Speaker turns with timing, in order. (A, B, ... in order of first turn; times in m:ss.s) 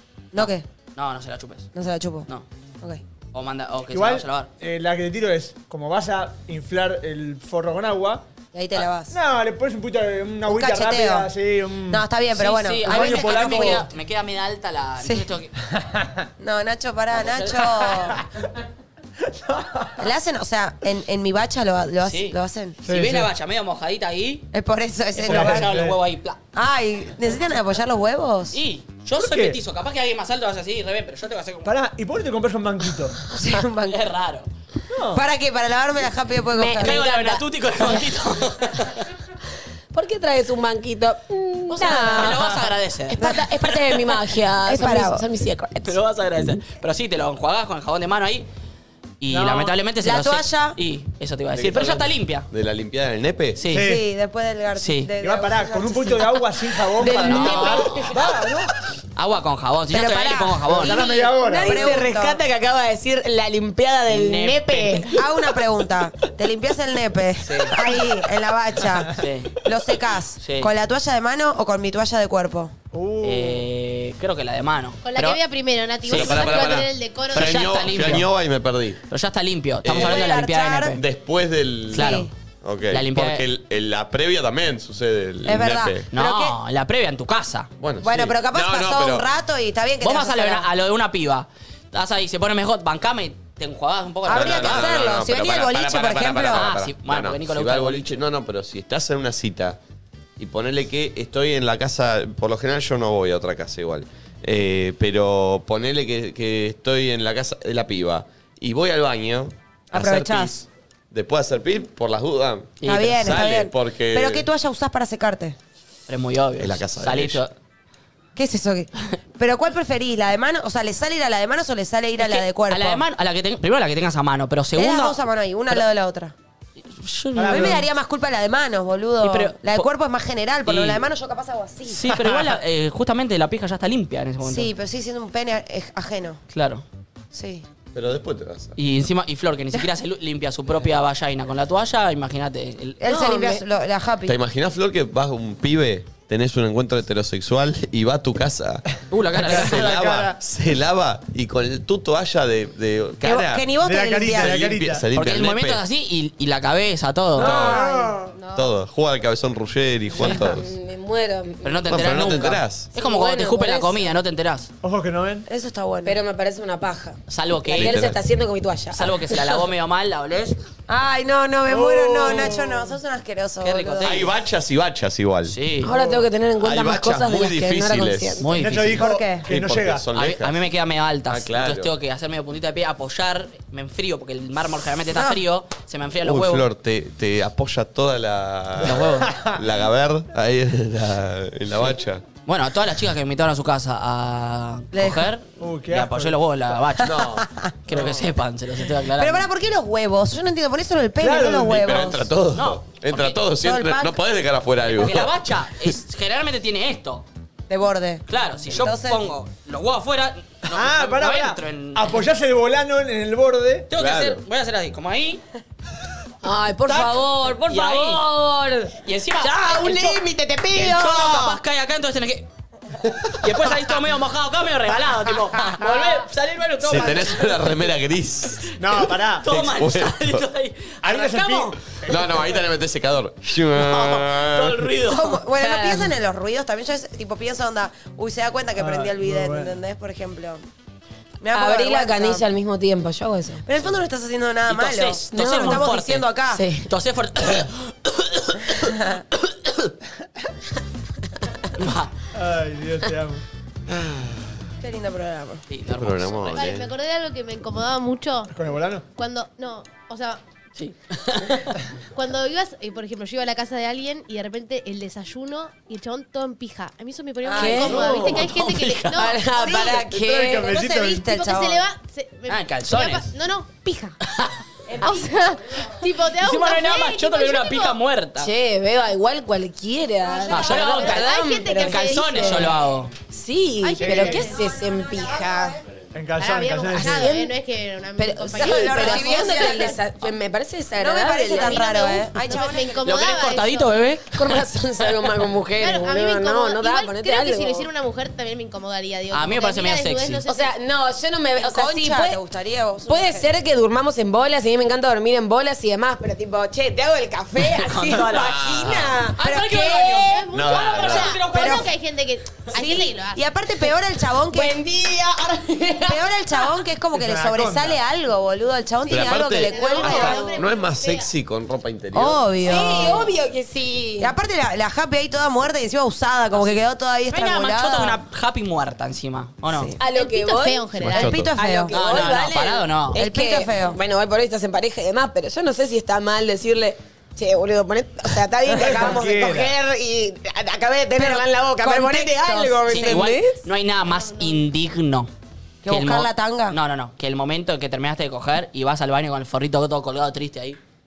0:00.3-0:00.6 A
0:00.4-0:01.7 B
0:01.7-0:02.3 A
0:03.3-0:04.5 B
0:03.9-0:08.2 C
0:08.5-0:09.2 A
0:09.1-0:12.0 C
0:10.5-0:11.3 A
0:11.9-0:13.8 A
0:12.4-0:15.5 B
0:12.8-0:13.9 C
0:15.0-0:15.3 A
0:15.8-0:16.2 C
0:16.4-0:18.2 A
0:17.2-0:17.9 B
0:19.2-0:20.0 C
0:20.0-0:22.8 A
0:22.0-0:24.5 B
0:22.8-0:23.3 C
0:24.5-0:25.7 A
0:25.2-0:26.4 B
0:25.3-0:26.0 C
0:26.5-0:28.6 A
0:28.5-0:31.7 B
0:29.2-0:29.6 C
0:31.6-0:33.2 C
0:33.3-0:34.0 A
0:33.8-0:34.5 B
0:34.9-0:35.2 C
0:35.1-0:37.0 A
0:36.6-0:38.0 D
0:36.8-0:39.1 B
0:39.9-0:46.0 D
0:41.7-0:43.7 B
0:43.2-0:44.0 A
0:44.6-0:45.2 A
0:45.8-0:48.5 B
0:49.2-0:52.5 B
0:49.3-0:49.8 C
0:50.0-0:50.8 A
0:51.5-0:53.7 E
0:53.6-0:53.9 B
0:53.7-0:54.0 C
0:53.7-0:56.5 A
0:54.8-0:55.1 B
0:55.2-0:58.7 C
0:57.0-0:57.8 D
0:57.1-0:57.8 A
0:57.1-0:58.3 B
0:59.2-1:01.0 B
0:59.9-1:02.4 A
1:00.8-1:01.9 C
1:01.4-1:05.2 D
1:04.1-1:05.1 B
1:05.1-1:12.8 A
1:07.4-1:07.8 B
1:09.1-1:09.6 B
1:10.4-1:10.7 B
1:12.9-1:13.7 C
1:13.2-1:15.4 B
1:15.0-1:17.9 F
1:16.0-1:19.0 E
1:16.1-1:16.7 B
1:17.3-1:18.3 B
1:19.1-1:21.0 B
1:19.8-1:20.4 E
1:19.9-1:21.0 A
1:20.9-1:26.1 E
1:21.9-1:22.3 B
1:21.9-1:22.3 A
1:22.9-1:23.4 B
1:25.4-1:26.6 A
1:26.1-1:27.7 B
1:27.8-1:29.3 E
1:28.0-1:30.7 A
1:30.0-1:35.0 B
1:34.3-1:36.7 A
1:34.3-1:39.8 E
1:36.5-1:38.2 B
1:40.4-1:54.5 E
1:49.9-1:50.6 A
1:52.8-1:53.3 B
1:52.8-1:55.6 A
1:56.1-1:57.5 B
1:56.6-1:57.4 E
1:58.4-2:03.0 A
2:02.2-2:05.8 B
2:04.8-2:06.3 A
2:06.8-2:07.8 B
2:07.4-2:07.8 C
2:07.5-2:12.2 A
2:09.2-2:09.9 B
2:10.6-2:11.1 B
2:11.9-2:14.7 B
2:14.4-2:16.4 A
2:16.5-2:16.8 B
2:17.3-2:17.7 A
2:17.9-2:18.8 E
2:18.8-2:23.0 B
2:23.0-2:24.4 A
2:23.0-2:23.6 D
2:24.2-2:28.8 E
2:29.1-2:29.9 B
2:29.4-2:30.4 C
2:29.4-2:35.8 E
2:33.2-2:34.6 A
2:33.8-2:35.0 C
2:35.1-2:37.7 B
2:37.4-2:38.3 C
2:37.4-2:37.8 E
2:37.4-2:38.2 A
2:38.4-2:38.7 F
2:38.6-2:40.6 E
2:40.2-2:42.4 D
2:41.6-2:44.7 B
2:41.9-2:42.9 E
2:42.9-2:44.0 D
2:44.8-2:45.4 C
2:45.5-2:46.2 A
2:46.0-2:49.6 D
2:47.3-2:48.2 B
2:47.8-2:48.2 E
2:48.9-2:50.6 B
2:50.9-2:54.3 A
2:51.7-2:52.9 C
2:53.6-2:54.3 B
2:54.0-2:55.6 E
2:55.5-2:55.9 B
2:55.8-2:58.5 D
2:55.8-2:56.3 C
2:56.6-2:58.4 E
2:58.4-2:59.1 B
2:58.5-3:00.1 C
2:59.0-2:59.5 A
2:59.5-3:00.7 E
3:00.2-3:06.6 B
3:01.3-3:01.9 E
3:05.1-3:05.4 A
3:06.2-3:12.2 E
3:08.8-3:09.3 B
3:09.2-3:09.6 C
3:12.4-3:17.3 B
3:14.9-3:15.3 A
3:15.6-3:16.4 C
3:17.0-3:17.5 E
3:17.1-3:18.0 A
3:17.9-3:19.5 B
3:19.2-3:22.3 A
3:21.2-3:21.9 C
3:21.7-3:25.4 E
3:22.5-3:23.4 B
3:23.6-3:24.2 A
3:24.8-3:27.2 B
3:27.7-3:29.3 A
3:28.3-3:32.2 B
3:30.7-3:33.9 C
3:33.9-3:35.4 B
3:33.9-3:34.4 E
3:36.4-3:41.6 D
3:36.9-3:38.2 B
3:39.0-3:40.2 B
3:40.7-3:42.5 B
3:43.4-3:47.8 B
3:46.8-3:48.7 E
3:48.8-3:49.5 C
3:49.4-3:51.8 B
3:49.4-3:50.4 E
3:51.0-3:52.6 C
3:52.0-3:54.9 E
3:53.7-3:55.4 B
3:55.0-4:00.6 A
3:55.5-3:56.1 D
3:58.8-3:59.7 C
4:01.4-4:02.5 A
4:01.5-4:03.6 D
4:03.6-4:06.6 A
4:04.7-4:06.3 B
4:05.3-4:05.9 D
4:06.5-4:06.9 D
4:06.9-4:09.9 B
4:08.8-4:09.2 A
4:11.8-4:12.1 B
4:12.3-4:13.4 C
4:13.9-4:14.6 E
4:14.8-4:15.6 A
4:15.7-4:16.6 B
4:15.9-4:16.9 E
4:16.4-4:18.5 F
4:18.5-4:19.0 C
4:19.2-4:20.4 F
4:20.8-4:21.8 B
4:22.1-4:29.4 F
4:27.4-4:28.4 A
4:27.5-4:28.4 D
4:28.0-4:29.2 B
4:29.1-4:30.7 D
4:29.5-4:31.8 A
4:30.3-4:31.2 C
4:31.1-4:34.2 F
4:32.5-4:33.3 B
4:34.9-4:35.8 A
4:35.0-4:38.0 F
4:36.4-4:38.5 B
4:38.4-4:42.8 D
4:40.2-4:41.1 A
4:40.5-4:43.1 B
4:40.5-4:42.7 F
4:43.3-4:45.8 D
4:43.8-4:44.6 F
4:44.0-4:44.5 C
4:44.1-4:45.8 A
4:46.1-4:47.3 C
4:46.4-4:49.9 F
4:47.0-4:47.5 D
4:48.2-4:50.0 A
4:48.5-4:52.2 D
4:51.0-4:53.4 A
4:51.6-4:54.0 F
4:53.0-4:54.6 B
4:54.3-4:57.9 D
4:55.8-5:00.8 F
4:59.3-5:00.4 B
5:00.5-5:02.4 D
5:01.6-5:03.5 A
5:03.1-5:10.4 D
5:07.6-5:08.8 B
5:08.3-5:09.3 E
5:09.4-5:11.9 B
5:09.4-5:10.2 A
5:10.2-5:13.4 F
5:10.5-5:11.4 E
5:11.5-5:11.9 A
5:12.7-5:14.8 A
5:14.5-5:16.7 D
5:16.1-5:20.6 A
5:17.1-5:18.0 C
5:19.1-5:23.1 E
5:19.5-5:21.3 F
5:19.8-5:20.5 D
5:22.1-5:23.3 A
5:22.6-5:24.3 D
5:24.2-5:28.2 A
5:27.3-5:29.9 B
5:29.7-5:30.0 A
5:30.0-5:43.6 D
5:30.0-5:31.4 F
5:31.1-5:32.3 A
5:31.9-5:33.2 B
5:33.1-5:34.0 A
5:38.8-5:39.8 C
5:41.2-5:43.3 A
5:42.9-5:45.3 B
5:44.1-5:44.6 F
5:45.8-5:46.8 A
5:45.9-5:50.8 B